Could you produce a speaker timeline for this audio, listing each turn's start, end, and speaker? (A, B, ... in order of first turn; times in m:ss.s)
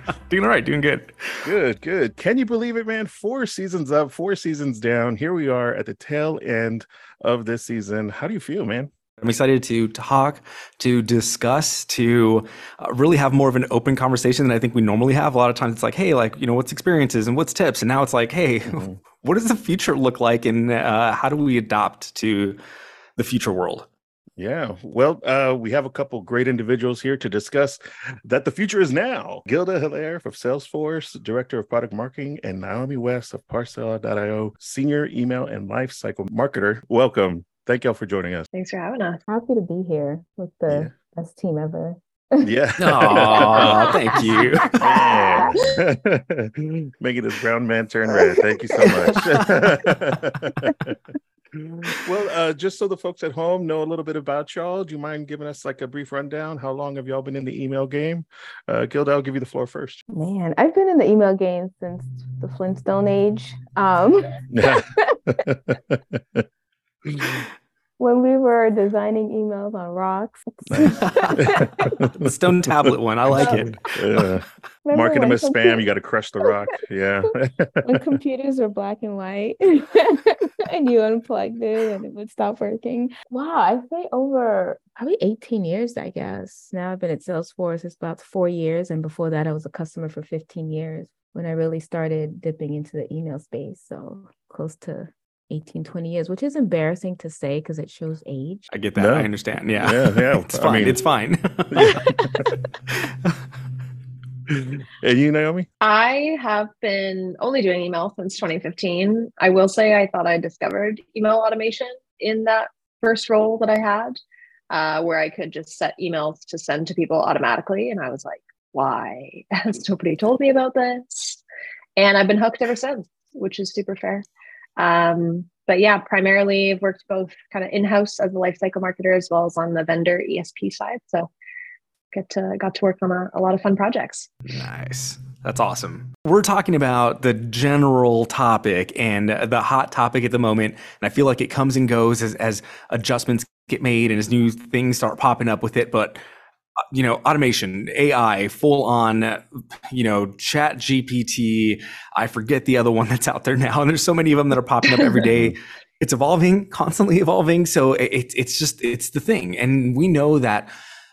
0:00.3-0:01.5 A
0:01.4-0:08.9 B
0:09.2-0:22.6 A
0:18.7-0:19.0 B
0:23.2-0:23.9 A
0:24.4-0:38.4 B
0:38.5-0:39.2 C
0:39.3-0:42.5 D
0:42.4-0:51.0 B
0:42.8-0:44.8 A
0:43.1-0:45.5 D
0:48.3-0:48.9 D
0:48.9-0:49.6 A
0:51.5-1:00.0 B
1:00.1-1:05.2 D
1:04.5-1:06.4 B
1:07.0-1:07.4 B
1:08.0-1:12.0 D
1:10.7-1:18.0 B
1:10.9-1:11.4 A
1:12.2-1:13.8 A
1:13.4-1:13.7 D
1:14.8-1:15.8 D
1:17.8-1:38.7 D
1:38.7-1:42.2 A
1:39.0-1:41.0 B
1:41.7-1:42.0 B
1:42.0-1:42.2 D
1:42.9-1:43.4 A
1:44.5-1:45.7 B
1:45.8-2:01.4 C
2:02.0-2:04.2 C
2:04.8-2:11.3 C
2:12.1-2:14.3 C
2:14.5-2:26.2 A
2:26.9-2:40.7 A
2:34.9-2:35.3 C